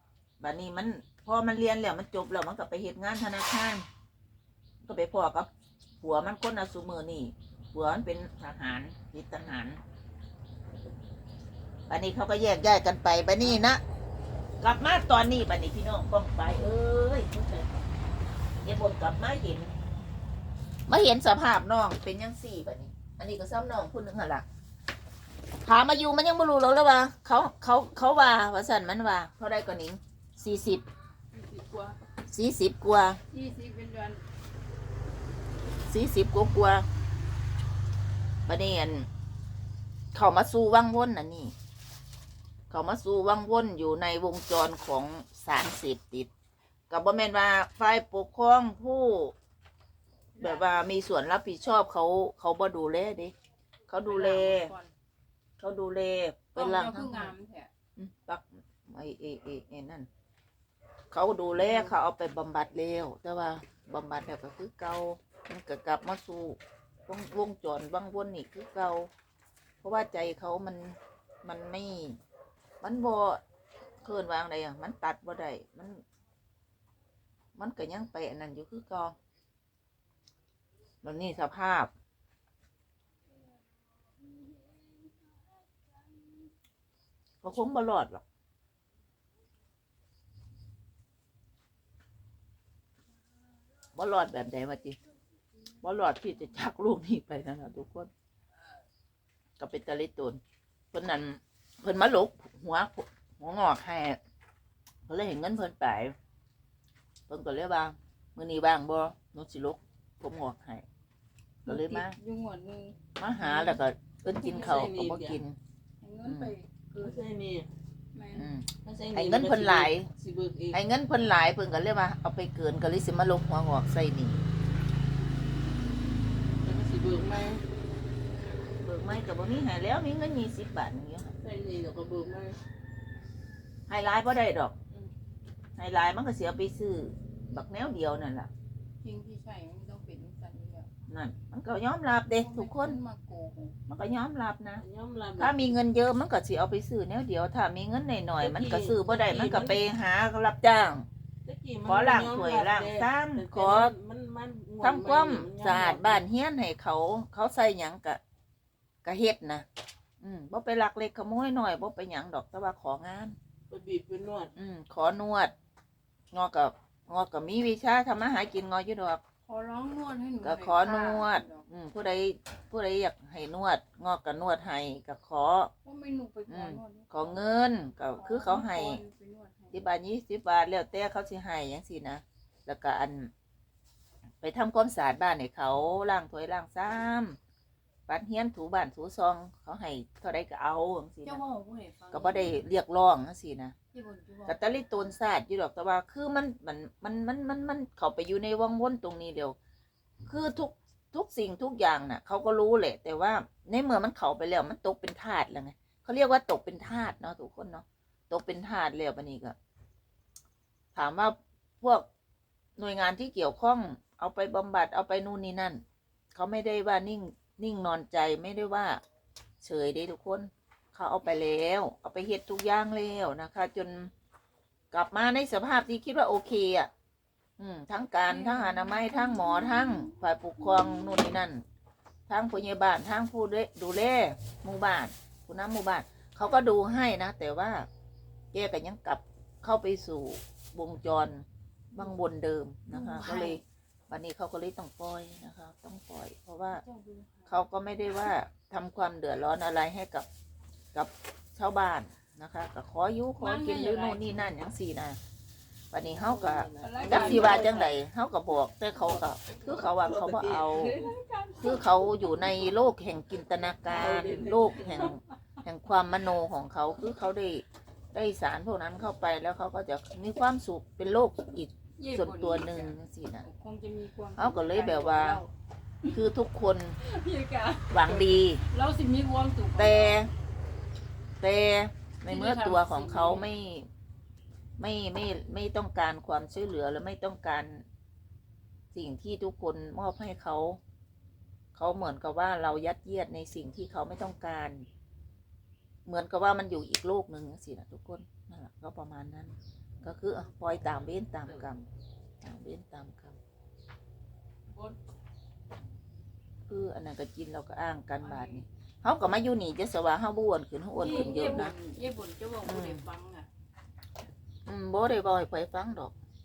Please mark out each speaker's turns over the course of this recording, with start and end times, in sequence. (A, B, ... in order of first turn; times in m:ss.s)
0:00.4-0:03.8 A
0:04.8-0:05.5 A
0:06.0-0:09.8 A
0:11.9-0:13.8 A
0:14.6-0:17.7 A
0:18.6-0:19.7 A
0:20.9-0:24.4 A
0:25.6-0:30.8 A
0:31.4-0:32.0 B
0:32.3-0:33.2 A
0:33.3-0:34.2 C
0:35.9-0:36.8 A
0:38.5-0:39.1 A
0:40.1-0:41.5 A
0:42.7-0:46.3 A
0:46.9-0:49.3 A
0:50.4-0:50.9 C
0:50.4-0:53.3 A
0:53.9-0:54.7 A
0:54.0-0:54.9 C
0:55.6-0:57.3 A
0:56.6-0:57.7 C
0:58.0-1:00.1 A
1:01.1-1:09.1 A
1:09.8-1:12.2 A
1:12.8-1:13.4 A
1:14.0-1:16.0 A
1:17.6-1:19.2 A
1:21.0-1:21.9 A
1:24.2-1:25.3 C
1:27.4-1:28.2 A
1:34.0-1:35.0 A
1:35.8-1:38.1 A
1:39.6-1:40.4 A
1:40.9-1:44.2 A
1:45.1-1:46.2 A
1:47.3-1:50.8 A
1:51.6-1:53.8 C
1:51.7-1:52.2 A
1:53.2-1:55.6 A
1:54.3-1:54.8 C
1:54.4-1:55.4 B
1:56.0-1:57.2 C
1:56.2-1:56.5 A
1:57.0-1:57.7 B
1:58.1-1:58.5 C
1:58.3-2:00.1 A
1:58.8-2:00.8 B
2:00.7-2:04.4 A
2:06.6-2:07.6 B
2:08.8-2:11.4 A
2:11.4-2:12.6 B
2:13.9-2:14.7 A
2:15.8-2:18.5 A
2:19.0-2:20.9 C
2:21.1-2:23.0 A
2:22.4-2:23.8 C
2:23.9-2:24.8 A
2:24.8-2:25.7 B
2:25.4-2:31.1 A
2:28.4-2:29.8 B
2:31.4-2:36.2 B
2:31.8-2:33.9 A
2:34.8-2:38.2 A
2:39.0-2:39.7 A
2:40.2-2:43.4 A
2:43.7-2:44.5 B
2:44.6-2:45.5 A
2:46.3-2:49.2 A
2:49.4-2:51.7 C
2:50.4-2:55.7 A
2:55.8-2:59.8 C
2:56.5-2:59.0 A
2:59.7-3:03.3 A
3:04.4-3:07.4 A
3:08.1-3:11.4 A
3:11.2-3:12.6 C
3:12.1-3:13.8 A
3:13.9-3:14.9 C
3:14.5-3:19.6 A
3:20.3-3:29.6 A
3:30.9-3:32.1 A
3:32.8-3:35.8 A
3:36.3-3:39.0 A
3:39.6-3:44.1 A
3:44.9-3:46.9 A
3:47.6-3:51.6 A
3:48.3-3:49.9 C
3:52.3-3:57.9 A
3:58.5-4:06.8 A
4:02.9-4:03.6 C
4:06.7-4:07.6 C
4:07.5-4:10.3 A
4:10.9-4:15.2 A
4:13.4-4:14.4 C
4:15.9-4:21.0 A
4:16.1-4:17.9 B
4:16.8-4:18.0 C
4:19.5-4:21.1 B
4:20.7-4:22.2 C
4:21.6-4:33.4 A
4:23.8-4:25.2 B
4:32.0-4:35.5 C
4:34.4-4:35.4 A
4:36.0-4:36.3 C
4:36.1-4:37.0 A
4:37.0-4:40.3 C
4:37.9-4:38.6 A
4:39.8-4:40.3 A
4:41.4-4:43.9 A
4:42.2-4:43.5 C
4:44.8-4:47.8 A
4:48.9-4:50.8 A
4:51.8-4:54.9 A
4:56.0-5:01.8 A
5:01.4-5:01.7 B
5:02.4-5:03.4 A
5:04.7-5:05.0 B
5:06.7-5:11.7 A
5:08.2-5:08.7 C
5:11.0-5:13.5 C
5:12.6-5:13.0 A
5:14.7-5:16.1 A